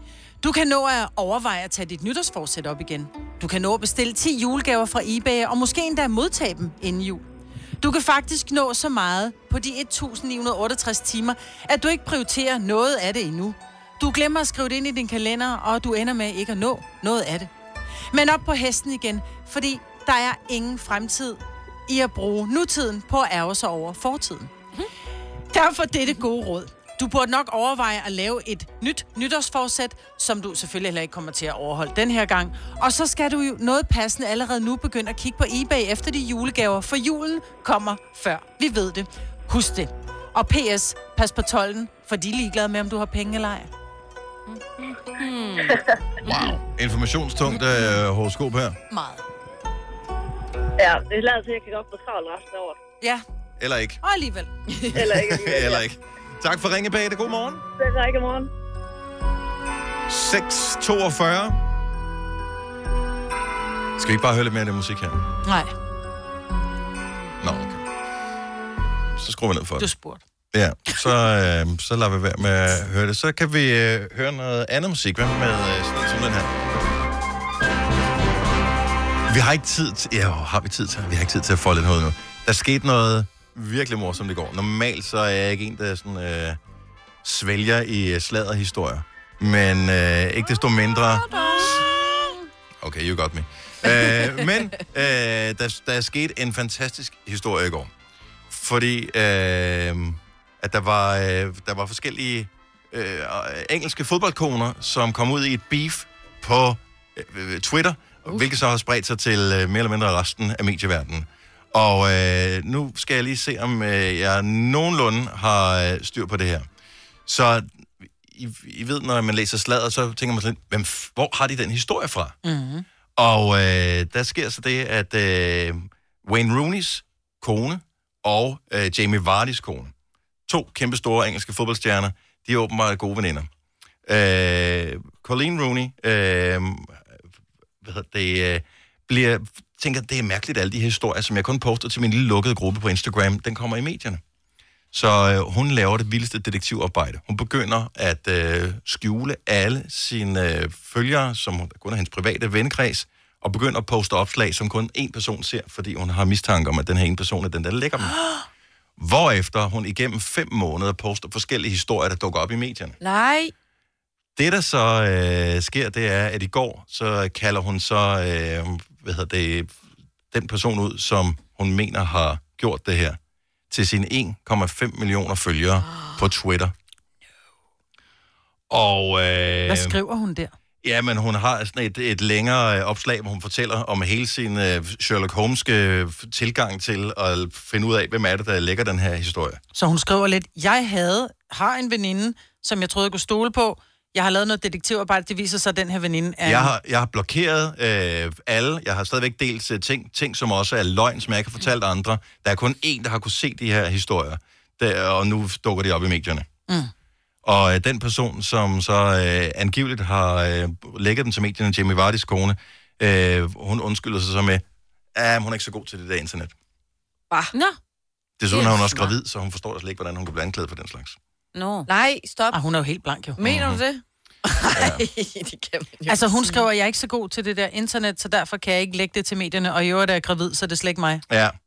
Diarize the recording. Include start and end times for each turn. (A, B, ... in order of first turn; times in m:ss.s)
0:00.4-0:07.2 A
0:07.8-0:17.5 A
0:18.1-0:24.5 A
0:25.5-0:43.7 A
0:44.5-0:45.8 B
0:46.2-0:48.8 C
0:48.9-0:49.2 A
0:50.8-0:52.8 D
0:53.6-0:54.0 C
0:54.0-0:54.5 A
0:54.9-0:57.6 C
1:00.1-1:01.6 C
1:04.0-1:05.2 C
1:05.4-1:05.7 A
1:07.4-1:07.8 C
1:09.2-1:09.9 C
1:09.8-1:10.2 A
1:10.5-1:16.5 C
1:19.3-1:26.6 C
1:27.2-1:31.8 C
1:32.8-1:37.9 C
1:38.5-1:56.6 C
1:57.3-2:02.4 C
2:02.4-2:02.8 A
2:03.2-2:09.9 C
2:10.5-2:13.5 C
2:14.0-2:17.2 C
2:17.8-2:24.2 C
2:24.9-2:38.2 C
2:39.0-2:43.0 C
2:43.0-2:43.5 E
2:44.4-2:49.7 C
2:50.3-2:53.2 C
2:53.7-2:56.7 C
2:58.7-3:00.0 C
2:59.7-3:00.5 A
3:00.8-3:09.6 C
3:09.7-3:16.7 A
3:16.4-3:26.5 C
3:27.4-3:34.6 C
3:35.1-3:36.5 C
3:38.4-3:41.2 C
3:38.5-3:39.1 B
3:41.5-3:41.9 B
3:41.9-3:42.6 E
3:42.5-3:43.4 A
3:43.4-3:46.6 E
3:43.4-3:43.8 C
3:44.8-3:45.0 C
3:46.1-3:51.2 A
3:51.3-3:51.6 C